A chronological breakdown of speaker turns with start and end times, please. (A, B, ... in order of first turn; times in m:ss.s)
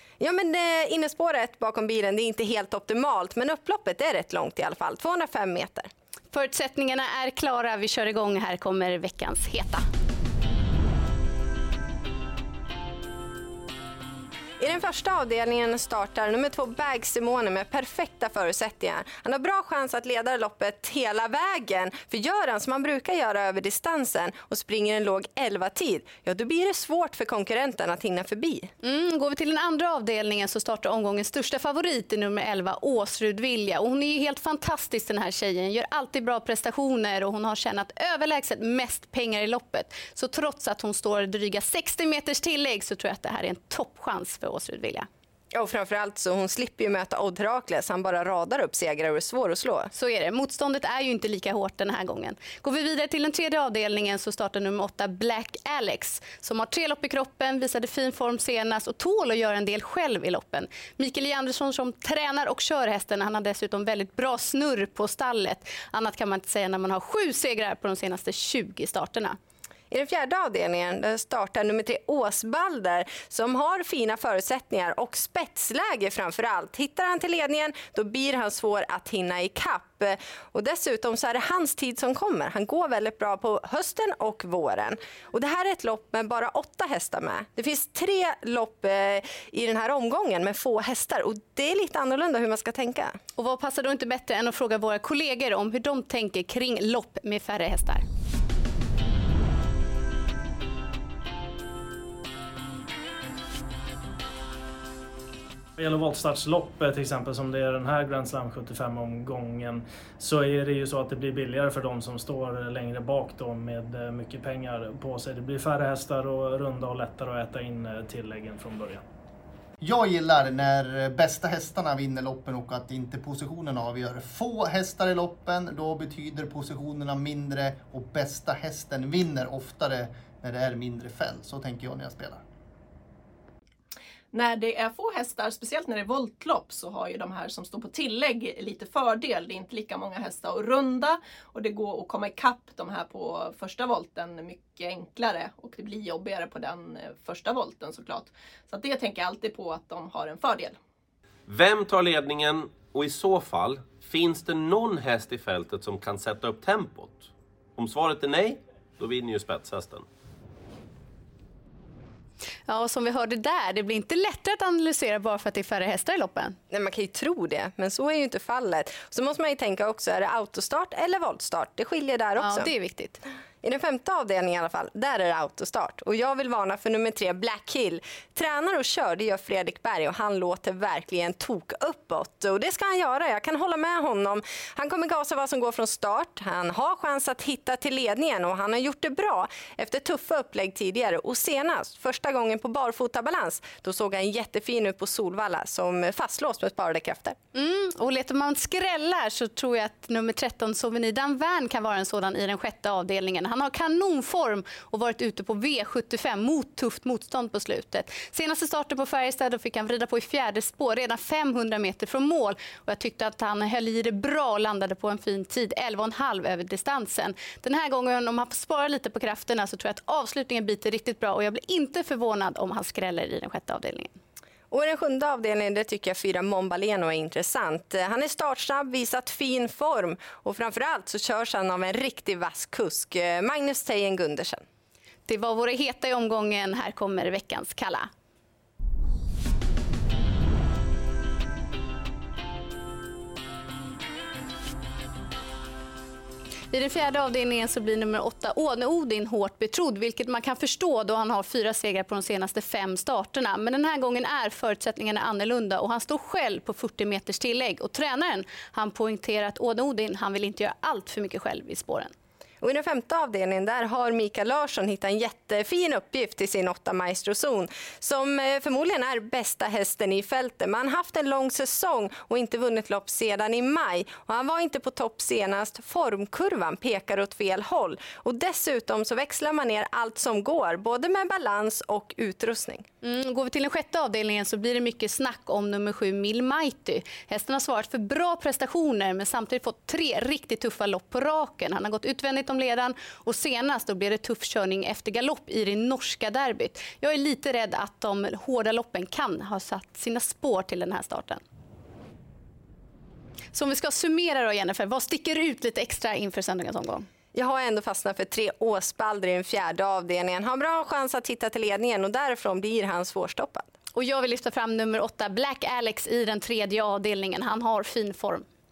0:00.2-0:05.9 A
0:06.3-0:09.8 B
0:14.6-0:28.7 A
0:28.8-0:45.1 B
0:45.5-0:49.9 A
0:49.9-1:09.4 B
1:09.9-1:33.2 A
1:33.4-1:38.0 B
1:45.8-1:59.0 C
1:59.8-2:12.4 D
2:14.3-2:30.8 E
2:31.5-2:40.1 F
2:42.7-2:46.6 B
2:46.7-2:52.7 A
2:52.4-2:53.2 B
2:53.6-3:17.4 A
3:17.5-3:44.2 B
3:44.7-3:54.6 A
3:55.3-3:58.1 B
4:06.7-4:22.1 B
4:22.6-4:42.8 A
4:43.0-5:01.4 B
5:03.5-5:07.0 B
5:07.3-5:13.7 A
5:13.9-5:18.4 B